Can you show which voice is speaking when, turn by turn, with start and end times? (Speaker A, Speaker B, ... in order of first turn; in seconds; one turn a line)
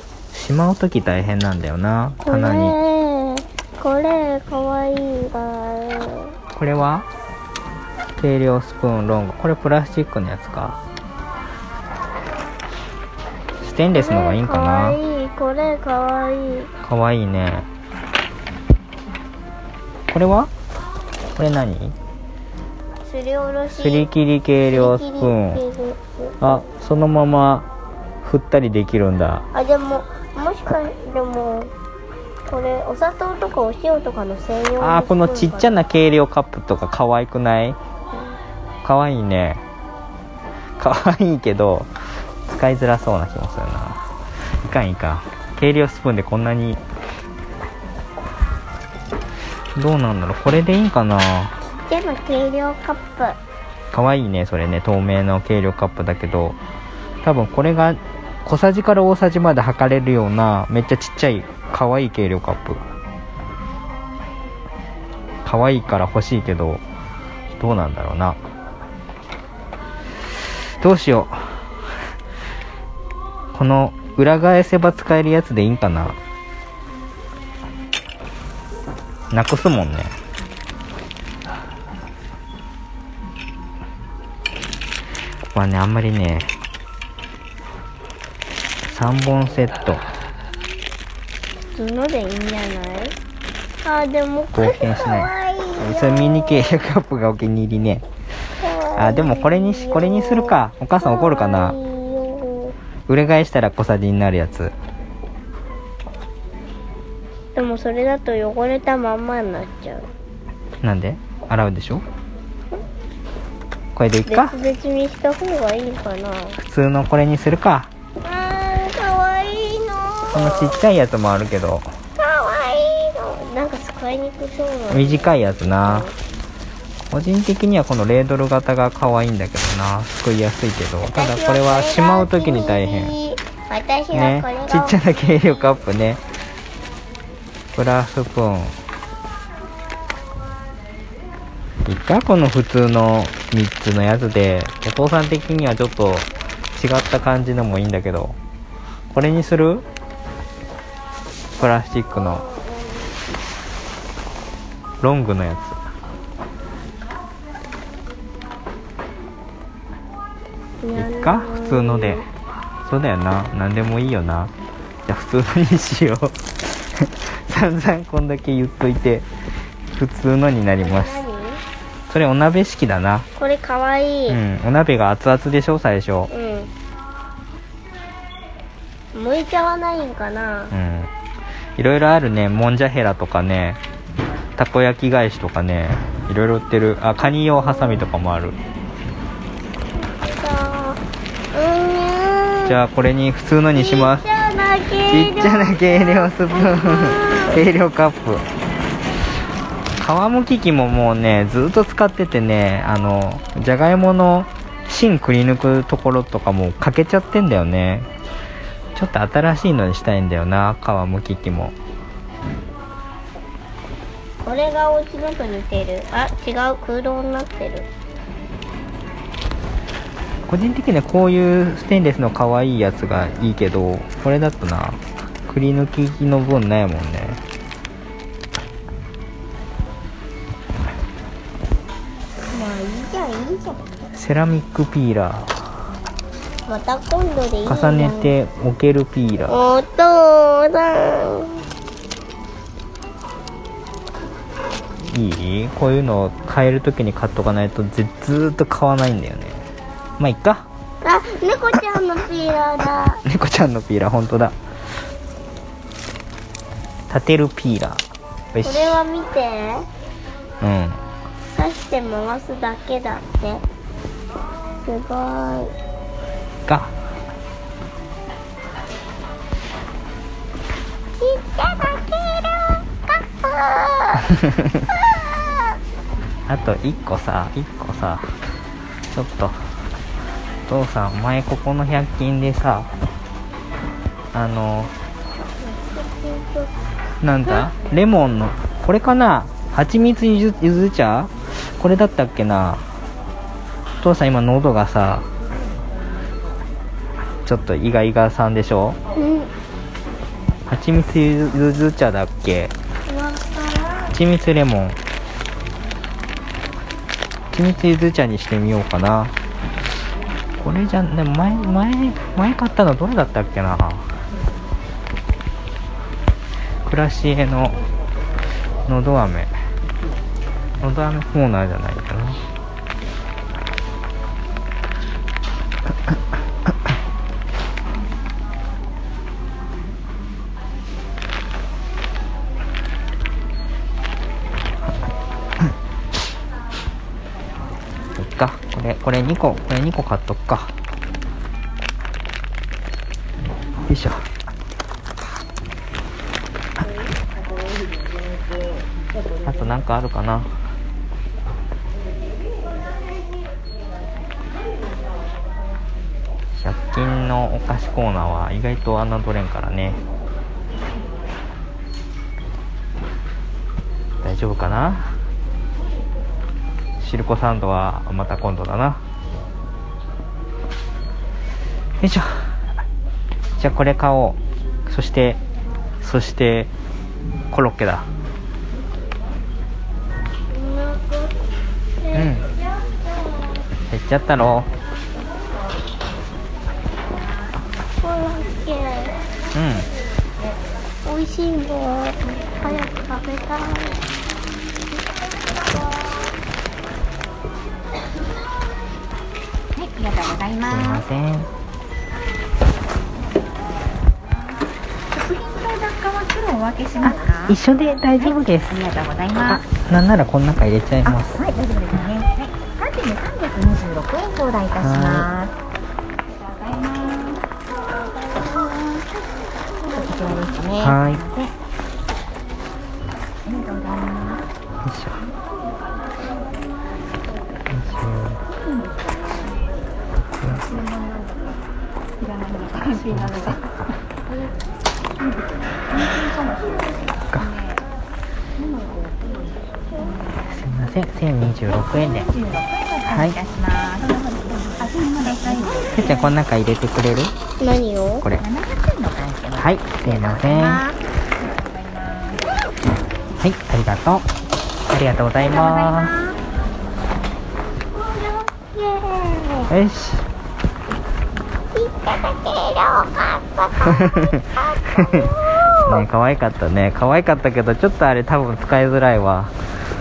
Speaker A: 0.3-2.7
Speaker B: 2.2-6.3
Speaker A: 6.5-7.1
Speaker A: 8.2-10.8
Speaker A: 13.6-15.0
Speaker B: 13.9-16.7
Speaker A: 16.8-17.6
Speaker A: 20.1-20.5
Speaker A: 21.4-21.9
Speaker B: 23.0-24.1
Speaker A: 23.7-25.6
Speaker B: 24.7-26.5
Speaker A: 26.4-27.7
Speaker A: 28.2-29.4
Speaker B: 29.5-31.7
Speaker B: 32.5-35.8
Speaker A: 34.8-37.8
Speaker A: 38.8-39.6
Speaker A: 40.8-41.9
Speaker A: 42.5-44.0
Speaker A: 44.6-46.8
Speaker A: 49.8-51.5
Speaker B: 51.8-53.4
Speaker A: 53.9-56.6
Speaker A: 57.2-62.8
Speaker A: 65.4-66.8
Speaker A: 67.5-68.4
Speaker A: 70.8-71.5
Speaker A: 73.5-76.2
Speaker A: 79.3-80.1
Speaker A: 85.5-86.5
Speaker A: 88.9-90.0
Speaker B: 91.8-93.1
Speaker B: 93.8-96.8
Speaker A: 94.5-98.0
Speaker B: 98.6-102.7
Speaker A: 99.0-101.8
Speaker A: 103.1-104.7
Speaker B: 107.5-110.1
Speaker A: 110.8-112.0
Speaker A: 113.9-114.5
Speaker B: 114.3-116.6
Speaker A: 116.7-117.9
Speaker B: 118.2-120.8
Speaker A: 120.3-121.9
Speaker B: 122.2-126.1
Speaker A: 124.9-126.1
Speaker A: 127.1-133.1
Speaker B: 131.1-135.0
Speaker A: 134.1-136.2
Speaker A: 137.7-138.7
Speaker A: 141.8-148.3
Speaker A: 149.1-149.8
Speaker A: 151.6-152.4
Speaker B: 152.2-153.0
Speaker A: 155.0-155.8
Speaker B: 160.8-162.2
Speaker A: 160.9-162.2
Speaker A: 162.8-164.5
Speaker A: 165.1-169.2
Speaker A: 169.9-171.2
Speaker B: 170.8-171.6
Speaker A: 172.1-173.3
Speaker B: 173.4-174.4
Speaker A: 174.3-176.3
Speaker B: 176.3-176.7
Speaker B: 179.1-180.7
Speaker A: 180.7-181.1
Speaker A: 181.8-183.8
Speaker A: 184.6-188.6
Speaker B: 190.0-191.0
Speaker B: 191.5-192.8
Speaker A: 192.7-194.2
Speaker B: 193.7-197.6
Speaker A: 195.1-198.4
Speaker A: 200.0-208.1
Speaker A: 208.9-211.7
Speaker B: 214.4-217.9
Speaker A: 220.5-227.4
Speaker B: 232.5-233.8
Speaker A: 234.1-235.5
Speaker B: 236.7-238.3
Speaker A: 237.7-239.6
Speaker B: 239.5-241.6
Speaker A: 245.1-249.6
Speaker A: 250.2-250.7
Speaker B: 251.0-253.2
Speaker A: 253.2-254.5
Speaker A: 257.1-258.0
Speaker A: 258.5-258.9
Speaker B: 258.6-259.9
Speaker A: 260.6-261.0
Speaker B: 261.5-263.6
Speaker B: 264.8-265.7
Speaker A: 266.7-266.9
Speaker B: 271.2-274.3
Speaker A: 274.6-274.8
Speaker B: 275.1-275.6
Speaker A: 276.5-278.3
Speaker A: 279.1-279.6
Speaker A: 280.7-282.9
Speaker A: 284.3-284.9
Speaker B: 285.6-286.7
Speaker A: 287.2-292.8
Speaker A: 294.0-295.2
Speaker A: 297.4-299.0
Speaker B: 299.1-299.5
Speaker A: 300.7-302.7
Speaker B: 303.1-303.9
Speaker A: 304.1-305.0
Speaker A: 307.5-309.3
Speaker A: 310.6-314.1
Speaker A: 316.9-317.8
Speaker A: 318.9-319.5
Speaker A: 320.8-322.4
Speaker A: 338.2-340.7
Speaker A: 343.9-344.2
Speaker A: 349.4-350.5
Speaker A: 356.6-360.0
Speaker A: 364.2-365.1
Speaker A: 367.0-369.0
Speaker A: 372.0-372.5
Speaker A: 373.6-375.4
Speaker A: 376.0-376.7
Speaker A: 377.5-378.0
Speaker B: 380.5-381.3
Speaker B: 382.0-382.5
Speaker A: 382.1-382.4
Speaker A: 383.9-384.7
Speaker B: 388.0-389.2
Speaker A: 389.5-389.9
Speaker B: 391.0-394.0
Speaker C: 399.7-401.1
Speaker A: 400.7-401.5
Speaker C: 405.1-409.6
Speaker A: 407.0-408.9
Speaker A: 409.4-411.4
Speaker C: 411.0-415.5
Speaker A: 414.8-415.3
Speaker C: 416.4-417.4
Speaker C: 419.8-421.5
Speaker A: 420.8-421.2
Speaker C: 423.4-424.4
Speaker A: 424.8-425.2
Speaker A: 427.7-428.4
Speaker C: 428.6-429.0
Speaker A: 430.4-430.6
Speaker C: 430.7-431.4
Speaker C: 432.2-433.7
Speaker A: 433.0-433.6
Speaker C: 435.9-437.8
Speaker C: 438.6-440.4
Speaker A: 440.5-442.3
Speaker C: 441.7-446.3
Speaker A: 443.1-443.4
Speaker A: 445.9-447.3
Speaker B: 447.6-448.2
Speaker C: 448.2-452.5
Speaker A: 449.6-450.8
Speaker A: 453.4-454.2
Speaker A: 454.9-456.1
Speaker C: 455.4-456.4
Speaker B: 457.9-459.7
Speaker A: 459.7-460.2
Speaker B: 461.7-466.0
Speaker A: 463.9-469.5